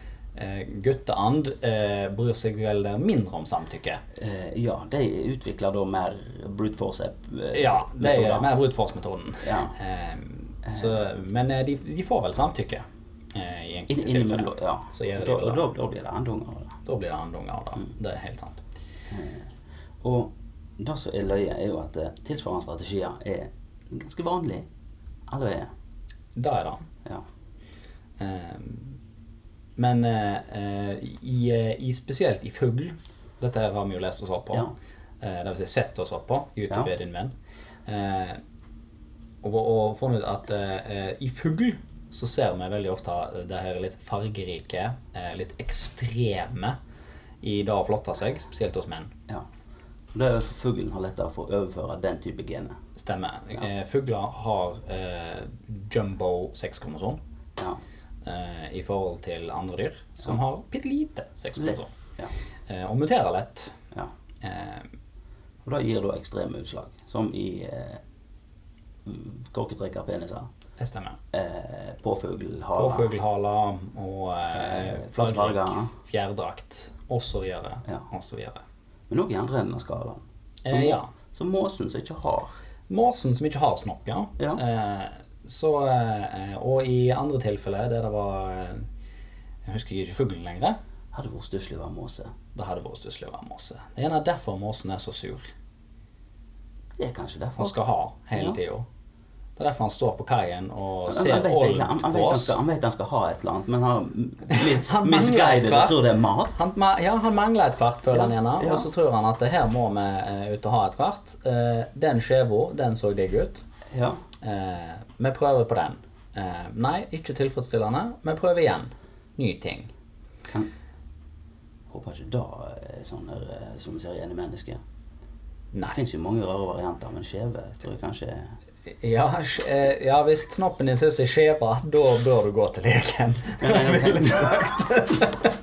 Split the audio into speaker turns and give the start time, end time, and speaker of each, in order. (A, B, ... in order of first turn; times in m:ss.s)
0:00.3-0:04.0 A
0:04.2-0:08.5 B
0:07.5-0:15.7 A
0:09.4-0:09.8 B
0:10.7-0:11.0 B
0:13.9-0:16.8 B
0:16.8-0:18.6 A
0:19.1-0:19.5 B
0:20.0-0:24.7 B
0:25.3-0:25.7 B
0:26.3-0:26.8 A
0:28.2-0:29.0 A
0:29.8-0:34.6 A
0:35.2-0:37.3 A
0:37.8-0:38.4 A
0:39.4-0:46.8 A
0:47.4-0:49.1 A
0:50.1-0:52.8 B
0:53.0-0:57.2 A
0:58.2-1:01.9 A
1:01.6-1:02.3 B
1:02.7-1:03.7 A
1:04.4-1:04.9 A
1:05.6-1:08.0 B
1:09.0-1:10.5 B
1:10.8-1:11.2 A
1:11.3-1:13.1 B
1:12.8-1:18.6 A
1:14.5-1:15.9 B
1:19.1-1:22.6 B
1:20.6-1:21.1 A
1:22.9-1:28.8 A
1:29.6-1:30.8 A
1:31.1-1:32.3 B
1:32.5-1:35.5 A
1:37.0-1:37.8 B
1:37.6-1:38.8 A
1:39.6-1:42.6 A
1:41.1-1:46.6 B
1:44.5-1:46.0 A
1:46.5-1:53.6 A
1:48.1-1:48.9 B
1:53.9-1:54.2 B
1:54.4-1:59.9 A
2:01.9-2:04.8 B
2:05.7-2:06.0 A
2:05.9-2:08.5 B
2:09.0-2:15.5 A
2:13.6-2:14.8 B